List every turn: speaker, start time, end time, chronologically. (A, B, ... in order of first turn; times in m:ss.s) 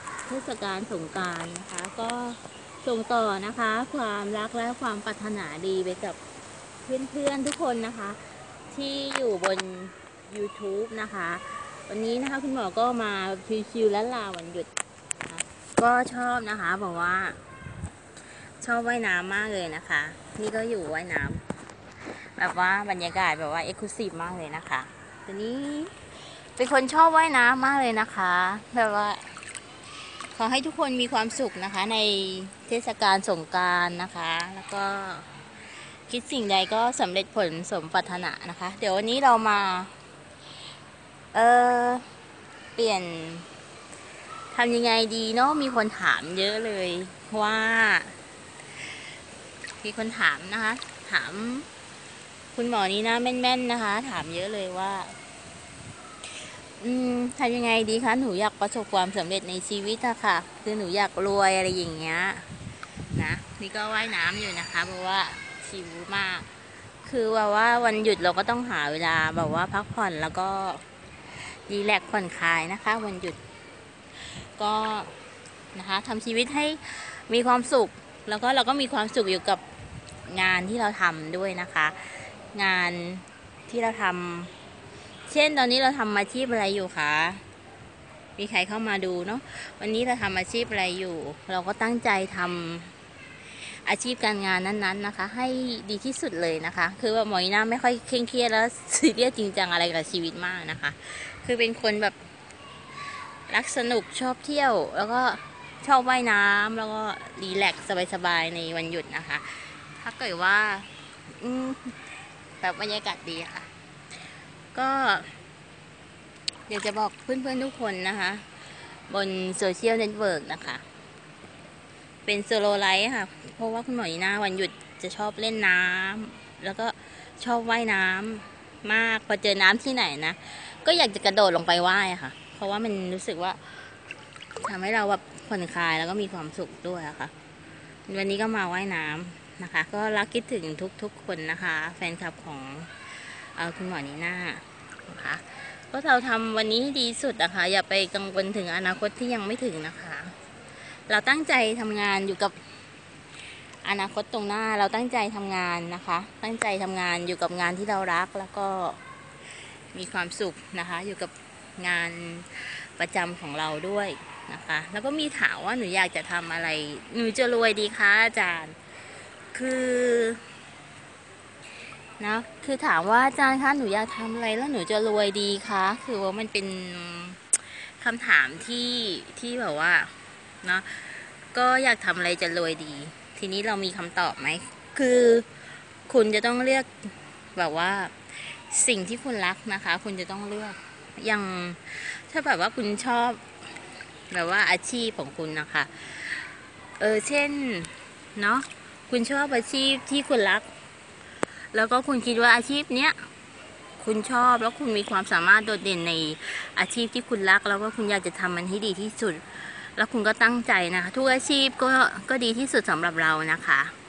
0:00.3-0:06.2 A
0:06.8-0:14.7 A
0:15.2-0:17.4 A
0:18.6-0:21.4 A
0:22.4-0:25.9 A
0:26.6-0:29.3 A
0:30.3-0:35.4 A
0:36.1-0:39.9 A
0:41.3-0:42.0 A
0:42.7-0:43.5 A
0:44.5-0:48.1 A
0:49.8-0:51.7 A
0:52.5-0:55.1 A
0:56.8-1:02.4 A
1:03.1-1:06.5 A
1:07.0-1:10.8 A
1:11.5-1:13.4 A
1:14.3-1:15.1 A
1:15.7-1:19.6 A
1:20.2-1:24.5 A
1:25.3-1:27.4 A
1:28.4-1:32.9 A
1:33.8-1:42.2 A
1:43.5-1:51.9 A
1:52.6-1:53.7 A
1:54.7-1:55.3 A
1:56.7-1:58.4 A
1:59.1-2:00.8 A
2:02.2-2:13.6 A
2:14.6-2:17.3 A
2:18.1-2:30.3 A
2:31.1-2:32.6 A
2:33.8-2:39.0 A
2:39.9-2:48.8 A
2:49.5-2:50.4 A
2:52.2-3:00.1 A
3:00.6-3:05.5 A
3:06.1-3:13.4 A
3:14.3-3:16.5 A
3:17.0-3:20.7 A
3:21.7-3:23.2 A
3:24.0-3:33.9 A